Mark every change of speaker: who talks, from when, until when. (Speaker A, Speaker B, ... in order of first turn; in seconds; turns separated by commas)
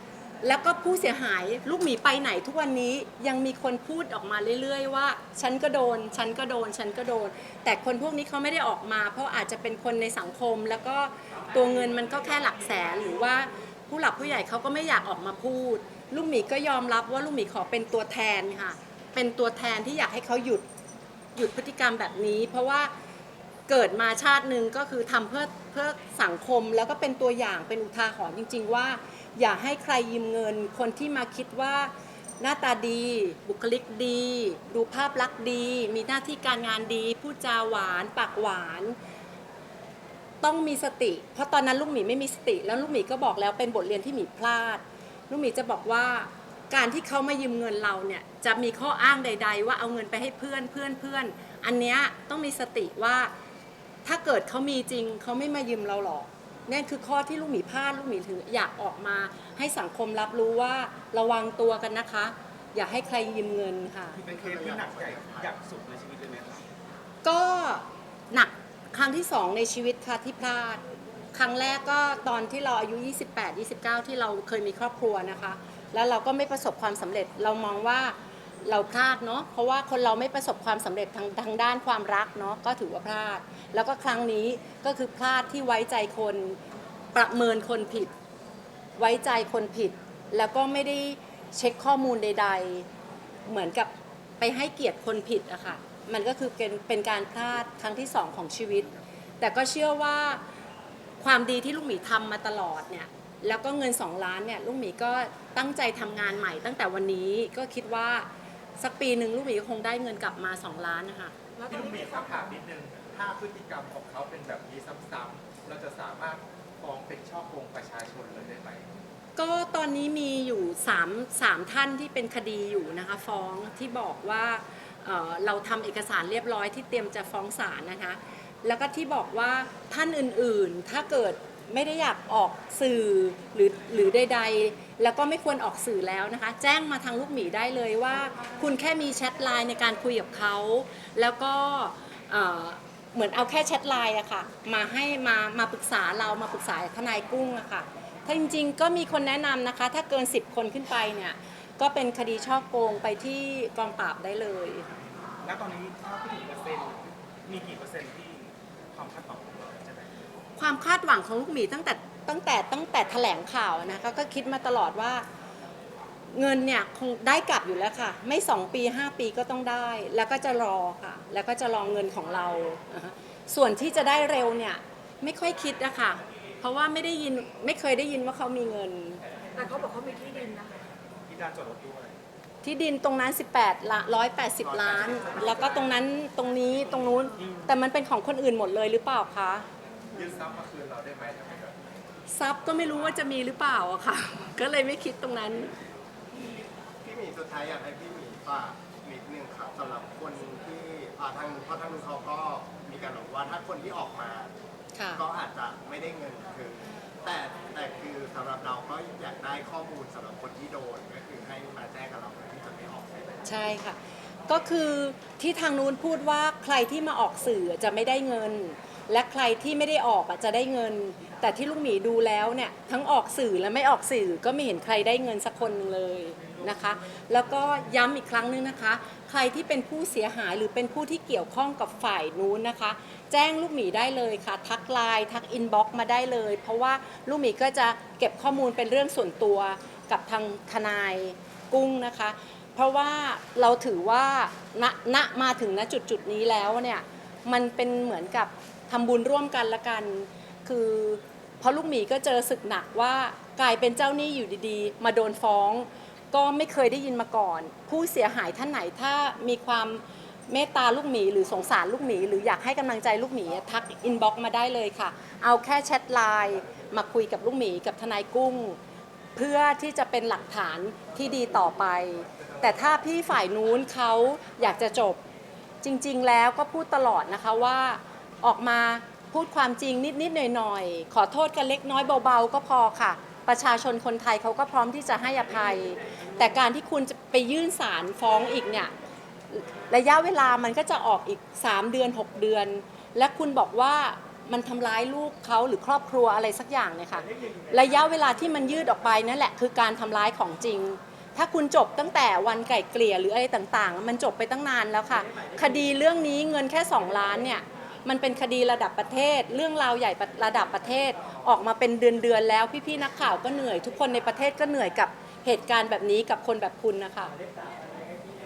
Speaker A: 0.4-20.6, Speaker A: 21.4-22.9, Speaker A: 23.7-39.0, Speaker A: 40.4-53.3, Speaker A: 54.0-64.2, Speaker B: 64.1-66.7, Speaker C: 64.3-65.5, Speaker A: 67.2-70.8, Speaker A: 71.3-86.6, Speaker A: 87.1-88.1, Speaker A: 89.0-92.9, Speaker A: 93.5-98.9, Speaker A: 99.4-100.4, Speaker A: 101.2-111.3, Speaker D: 111.6-112.4, Speaker E: 111.7-118.9, Speaker A: 119.3-154.9, Speaker B: 155.4-160.2, Speaker A: 160.6-165.2, Speaker A: 166.3-179.2, Speaker D: 179.5-180.9, Speaker B: 181.3-182.2, Speaker A: 182.6-189.7, Speaker C: 184.6-185.8, Speaker B: 187.4-187.7, Speaker E: 190.1-191.8, Speaker A: 192.3-195.8, Speaker C: 197.0-204.5, Speaker A: 204.9-205.2, Speaker C: 205.1-213.4, Speaker A: 213.4-214.0, Speaker A: 214.5-268.8, Speaker A: 269.3-275.2, Speaker A: 275.8-288.9, Speaker A: 289.5-317.3